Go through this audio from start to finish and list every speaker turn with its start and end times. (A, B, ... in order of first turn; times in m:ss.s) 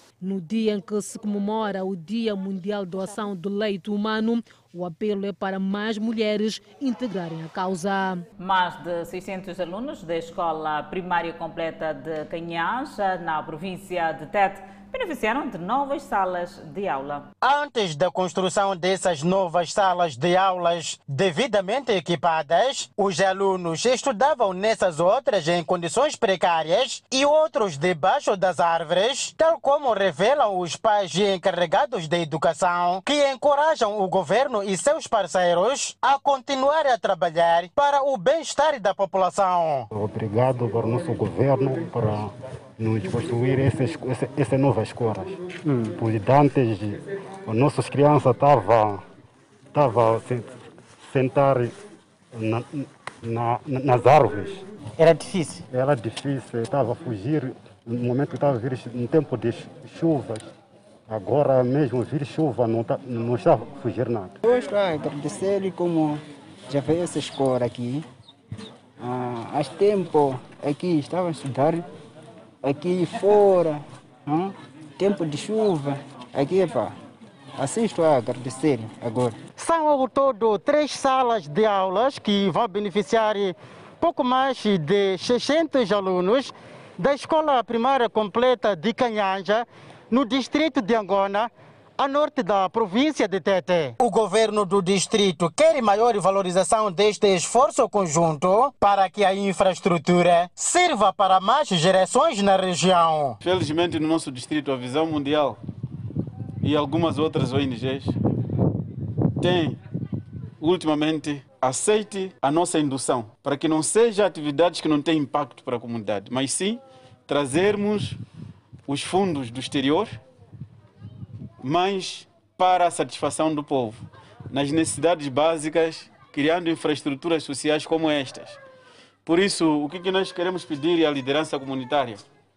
0:00.2-0:08.2 A
0:08.4-0:17.3 B
0:17.4-0:39.9 C
0:39.9-0:49.0 D
0:49.7-0:51.8 D
0:52.3-0:54.6 D
0:55.7-1:00.5 D
1:01.1-1:04.3 D
1:04.4-1:08.1 E
1:09.0-1:11.9 E
1:12.6-1:17.0 E
1:17.6-1:19.4 E
1:19.6-1:43.4 C
1:43.4-1:45.6 F
1:46.6-1:48.2 F
1:49.4-1:49.8 F
1:50.6-1:58.2 F
1:58.9-2:00.2 F
2:01.6-2:08.6 F
2:09.3-2:12.2 F